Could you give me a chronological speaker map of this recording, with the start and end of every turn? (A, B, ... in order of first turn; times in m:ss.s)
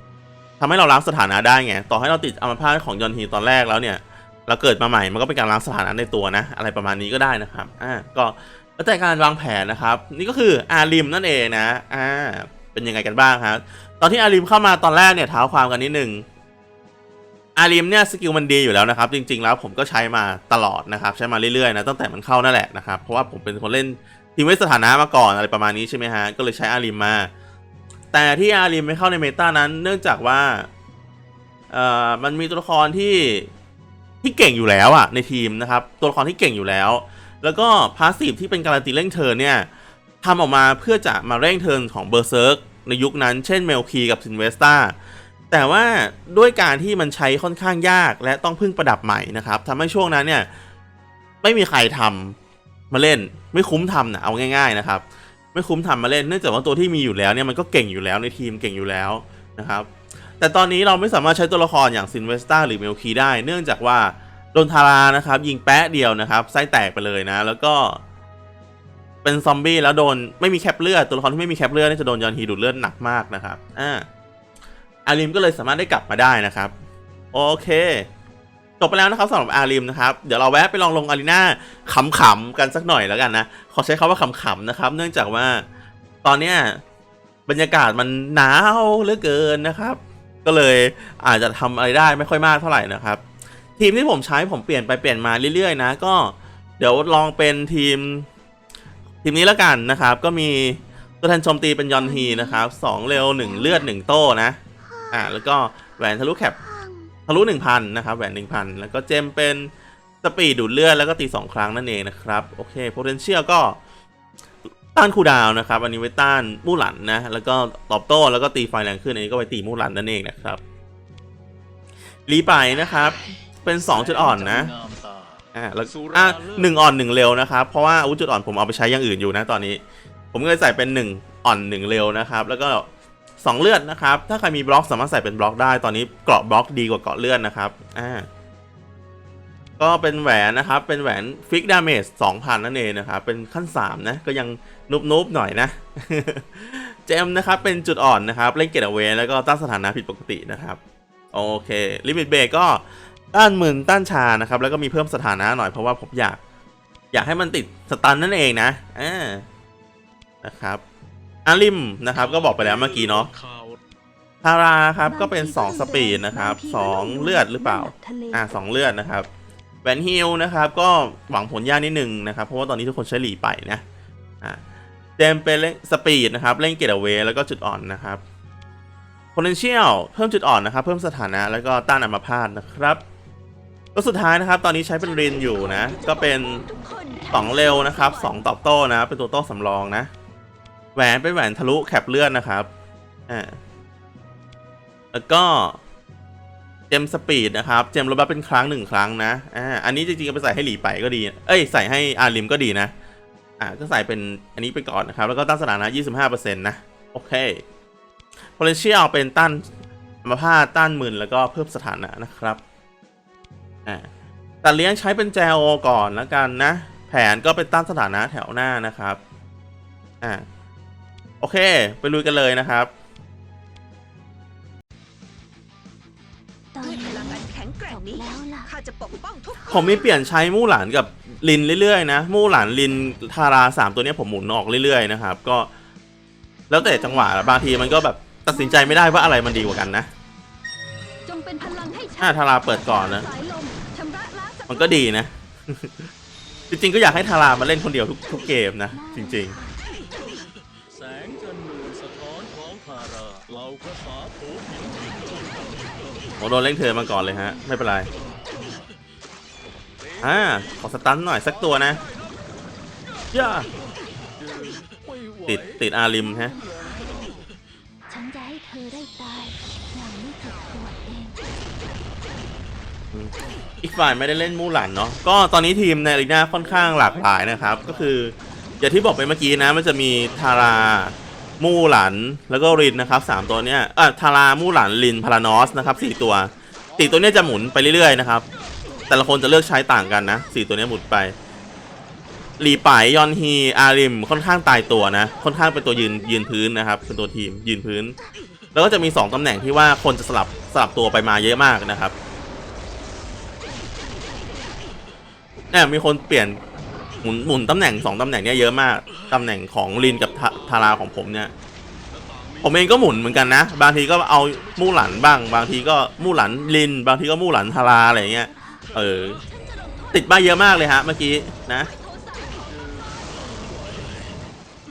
0:00.6-0:16.3 A
0:17.6-0:27.3 A
0:28.1-0:30.7 A
0:31.7-0:33.5 A
0:34.2-0:39.7 A
0:40.2-0:45.0 A
0:45.5-0:50.5 A
0:51.4-0:52.4 A
0:52.9-0:55.0 A
0:55.5-0:59.9 A
1:00.4-1:08.0 A
1:09.2-1:14.1 A
1:15.1-1:16.7 A
1:17.3-1:18.1 A
1:18.8-1:25.7 A
1:26.2-1:26.8 A
1:27.5-1:33.2 A
1:33.8-1:38.3 A
1:39.2-1:44.6 A
1:42.0-1:43.9 B
1:44.8-1:45.5 B
1:45.1-1:46.6 A
1:46.6-1:47.1 B
1:47.3-1:49.7 A
1:50.2-1:53.8 A
1:54.9-2:00.6 A
2:02.3-2:04.7 A
2:03.8-2:06.8 C
2:05.6-2:09.8 A
2:10.3-2:12.9 A
2:13.4-2:18.3 A
2:19.8-2:30.8 A
2:31.3-2:36.4 A
2:37.1-2:39.4 A
2:40.4-2:40.8 A
2:41.4-2:43.3 A
2:42.1-2:43.8 C
2:44.4-2:49.3 A
2:45.1-2:48.5 B
2:49.8-2:53.8 A
2:55.2-2:58.2 A
2:59.4-3:03.0 A
3:04.0-3:06.6 A
3:05.0-3:08.4 B
3:07.3-3:10.1 A
3:11.0-3:12.7 A
3:13.3-3:13.6 A
3:15.1-3:15.8 A
3:16.9-3:22.9 A
3:23.6-3:27.6 A
3:28.6-3:29.6 A
3:30.2-3:32.6 A
3:34.6-3:39.2 A
3:41.4-3:42.9 A
3:46.7-3:48.7 B
3:46.8-3:50.1 D
3:49.6-3:50.2 B
3:49.7-3:55.7 A
3:56.7-4:00.1 A
3:56.8-3:59.8 B
4:01.3-4:04.8 B
4:02.2-4:03.3 A
4:04.7-4:06.1 A
4:06.7-4:09.6 A
4:08.9-4:09.8 B
4:10.9-4:16.1 C
4:16.4-4:18.1 A
4:17.1-4:18.1 B
4:20.0-4:22.3 C
4:20.2-4:22.0 A
4:23.3-4:23.7 A
4:23.4-4:23.7 C
4:24.4-4:25.7 C
4:25.5-4:26.6 A
4:26.2-4:27.0 B
4:26.8-4:27.4 C
4:28.1-4:31.4 B
4:33.1-4:48.5 A
4:36.5-4:38.2 C
4:42.7-4:43.2 B
4:49.1-4:51.4 A
4:52.6-4:58.2 A
4:58.7-5:02.1 A
5:05.7-5:06.6 A
5:07.2-5:11.5 A
5:12.1-5:16.2 C
5:12.6-5:19.4 A
5:17.8-5:18.9 B
5:18.9-5:20.6 D
5:20.1-5:21.9 A
5:21.6-5:23.8 D
5:22.7-5:24.4 C